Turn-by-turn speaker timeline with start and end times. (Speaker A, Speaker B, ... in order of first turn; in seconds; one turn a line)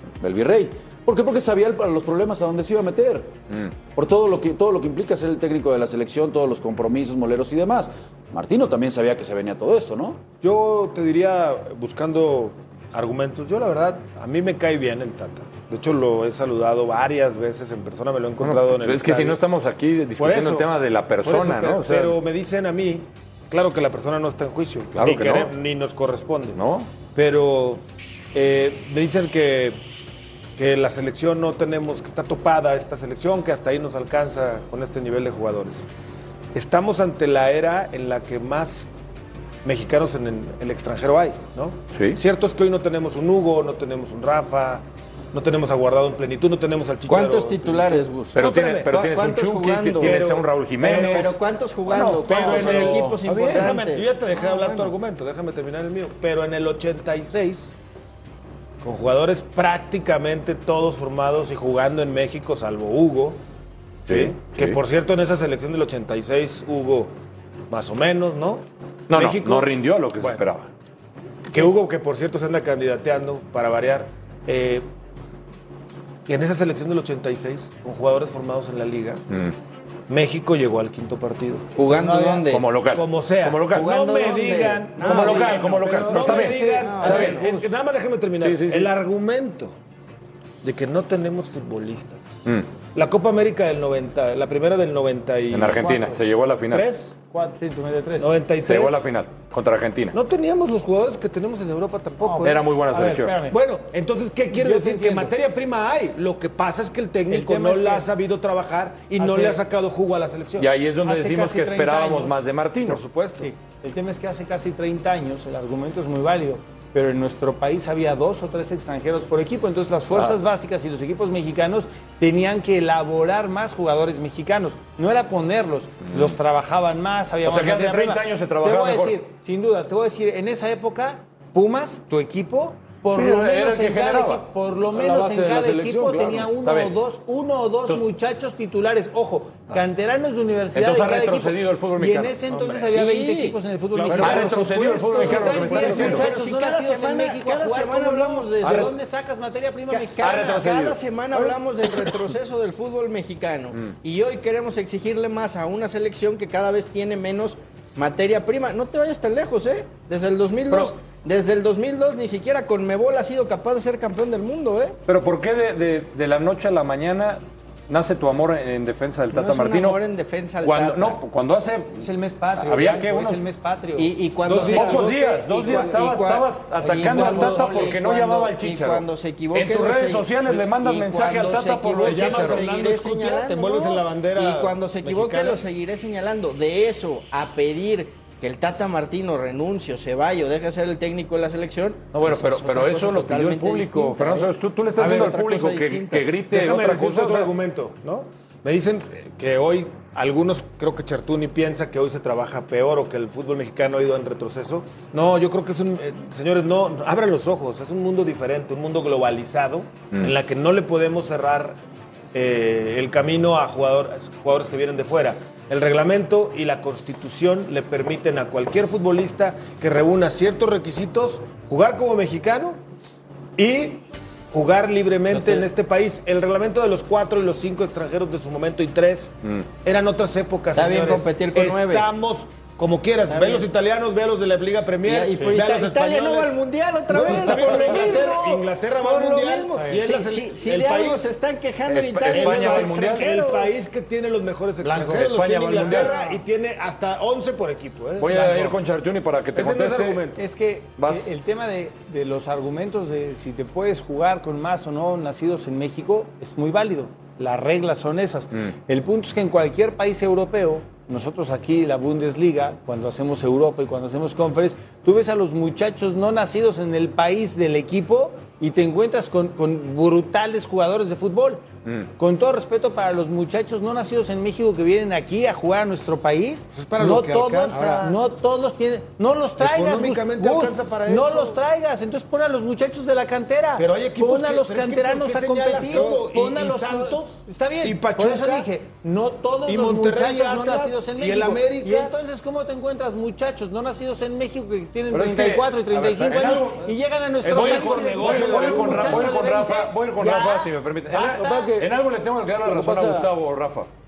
Speaker A: 0.2-3.3
Speaker A: 3.9-10.2
Speaker B: 10.4-19.4
Speaker C: 18.4-22.2
Speaker B: 20.2-20.7
Speaker B: 21.2-26.6
Speaker C: 24.9-25.5
Speaker C: 26.6-26.9
Speaker B: 27.1-27.8
Speaker B: 28.3-29.8
Speaker B: 30.6-35.9
Speaker B: 36.5-38.9
Speaker B: 39.6-48.9
Speaker C: 41.9-42.2
Speaker D: 47.1-50.2
Speaker C: 48.4-53.8
Speaker B: 50.0-51.4
Speaker D: 50.8-54.9
Speaker B: 51.9-57.8
Speaker B: 58.8-63.4
Speaker C: 64.1-64.8
Speaker B: 64.1-67.1
Speaker B: 67.7-70.4
Speaker C: 69.1-70.7
Speaker B: 71.5-74.8
Speaker B: 76.3-79.2
Speaker C: 79.3-79.5
Speaker B: 80.1-81.7
Speaker D: 81.8-82.7
Speaker E: 81.9-82.5
Speaker C: 82.5-84.0
Speaker B: 82.9-89.8
Speaker D: 83.7-87.5
Speaker C: 85.0-87.4
Speaker E: 85.7-87.7
Speaker C: 88.4-88.9
Speaker B: 90.6-92.3
Speaker B: 93.0-95.9
Speaker C: 95.5-96.9
Speaker E: 95.8-96.2
Speaker B: 96.7-97.2
Speaker E: 97.3-98.3
Speaker B: 98.2-99.1
Speaker C: 98.7-100.2
Speaker B: 100.1-102.6
Speaker E: 102.2-103.6
Speaker C: 102.4-103.3
Speaker B: 103.5-110.7
Speaker E: 104.5-105.3
Speaker E: 107.3-108.1
Speaker E: 109.2-109.6
Speaker C: 110.6-113.0
Speaker E: 111.0-112.3
Speaker B: 112.8-113.5
Speaker E: 113.4-150.5
Speaker C: 126.1-126.4
Speaker C: 127.5-129.2
Speaker C: 133.1-134.5
Speaker A: 134.9-136.5
Speaker C: 136.6-137.0
Speaker C: 140.7-142.8
Speaker D: 142.9-143.6
Speaker B: 143.9-144.5
Speaker C: 144.1-146.3
Speaker D: 144.1-148.9
Speaker B: 145.2-146.2
Speaker C: 148.6-148.9
Speaker D: 149.9-165.0
Speaker C: 150.2-151.5
Speaker C: 160.7-160.9
Speaker C: 165.1-170.0
Speaker D: 169.3-171.2
Speaker C: 170.6-172.1
Speaker E: 172.0-174.2
Speaker C: 172.6-173.4
Speaker D: 174.0-196.3
Speaker B: 174.4-175.1
Speaker C: 174.5-182.7
Speaker E: 176.9-178.0
Speaker B: 182.0-185.6
Speaker C: 192.1-197.5
Speaker B: 195.0-195.4
Speaker B: 196.5-211.8
Speaker B: 212.3-222.8
Speaker B: 223.6-236.6
Speaker D: 230.8-232.1
Speaker D: 233.3-233.7
Speaker D: 235.1-243.7
Speaker B: 237.1-241.3
Speaker E: 239.8-240.0
Speaker C: 241.9-243.3
Speaker B: 242.3-248.3
Speaker E: 244.8-246.4
Speaker C: 244.9-246.2
Speaker C: 248.2-250.2
Speaker E: 248.3-248.8
Speaker B: 249.6-250.4
Speaker E: 250.3-271.7
Speaker C: 251.0-251.3
Speaker E: 272.2-301.7
Speaker B: 276.7-278.2
Speaker D: 277.7-278.1
Speaker B: 279.6-281.6
Speaker B: 283.8-288.7
Speaker D: 285.9-286.2
Speaker B: 289.7-292.1
Speaker C: 295.1-296.8
Speaker B: 296.2-296.8
Speaker B: 297.4-299.4
Speaker C: 297.5-303.9
Speaker A: 301.2-302.0
Speaker A: 302.6-303.3